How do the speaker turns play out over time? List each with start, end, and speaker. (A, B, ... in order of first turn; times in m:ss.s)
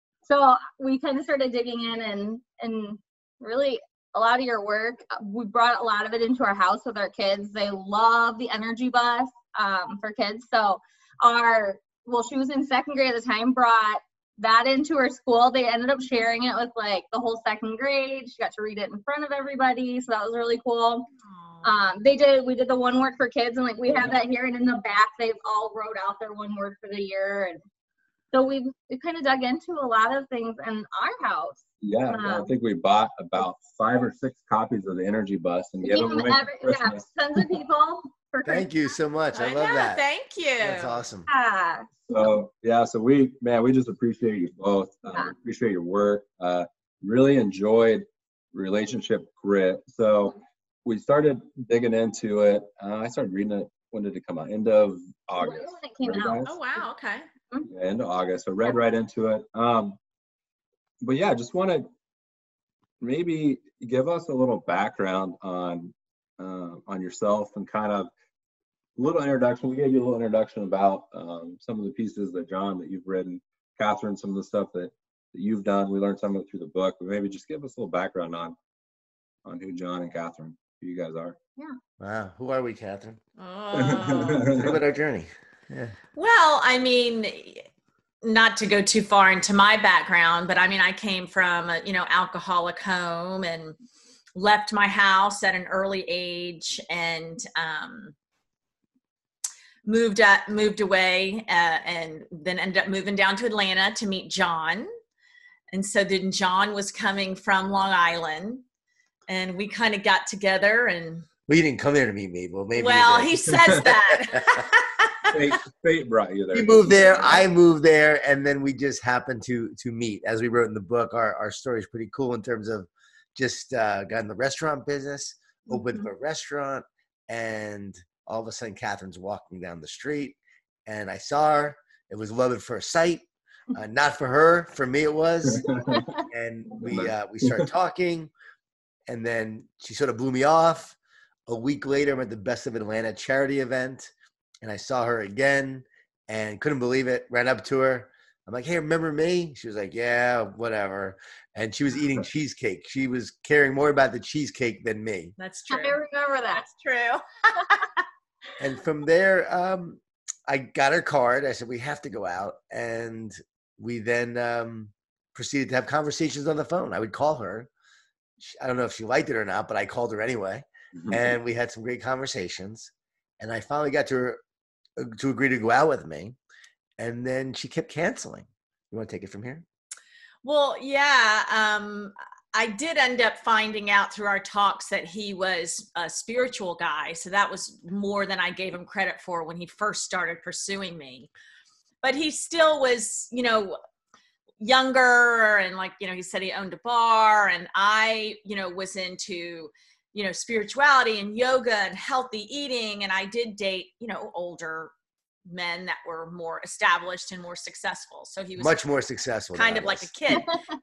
0:00.2-0:21.1 A
0:21.3-0:21.7 B
0:21.6-0:27.6 A
0:28.3-0:32.5 A
0:31.8-0:37.0 C
0:35.8-0:38.7 A
0:38.4-0:40.0 D
0:39.3-0:41.0 B
0:40.6-0:41.3 D
0:41.3-0:42.1 A
0:42.1-0:56.6 C
0:55.4-0:56.4 A
0:56.4-0:57.3 B
0:57.6-1:00.0 C
1:01.0-1:01.9 C
1:03.0-1:08.1 C
1:09.0-1:18.6 C
1:19.4-1:21.4 C
1:22.0-1:23.2 D
1:23.4-1:24.5 B
1:23.7-1:24.8 C
1:24.5-1:25.9 D
1:26.2-1:27.6 B
1:28.2-1:33.8 B
1:34.4-1:38.1 B
1:39.8-1:44.9 B
1:45.7-1:48.6 B
1:49.3-1:51.2 B
1:51.5-1:54.6 D
1:52.8-1:55.3 B
1:55.3-1:57.3 C
1:56.5-2:18.3 D
2:05.7-2:06.1 A
2:15.4-2:16.1 C
2:15.9-2:16.2 A
2:16.8-2:17.7 C
2:19.1-2:20.9 D
2:21.5-2:35.3 D
2:35.4-2:36.0 B
2:35.7-2:36.6 A
2:36.5-2:37.9 B
2:38.6-2:47.7 D
2:48.4-2:54.4 D
2:50.9-2:51.3 C
2:55.0-2:56.4 D
2:57.0-2:59.6 D
3:00.4-3:11.3 B
3:12.0-3:13.8 B
3:14.6-3:24.9 B
3:25.4-3:28.8 B
3:28.6-3:30.1 D
3:29.5-3:30.6 B
3:30.3-3:30.6 A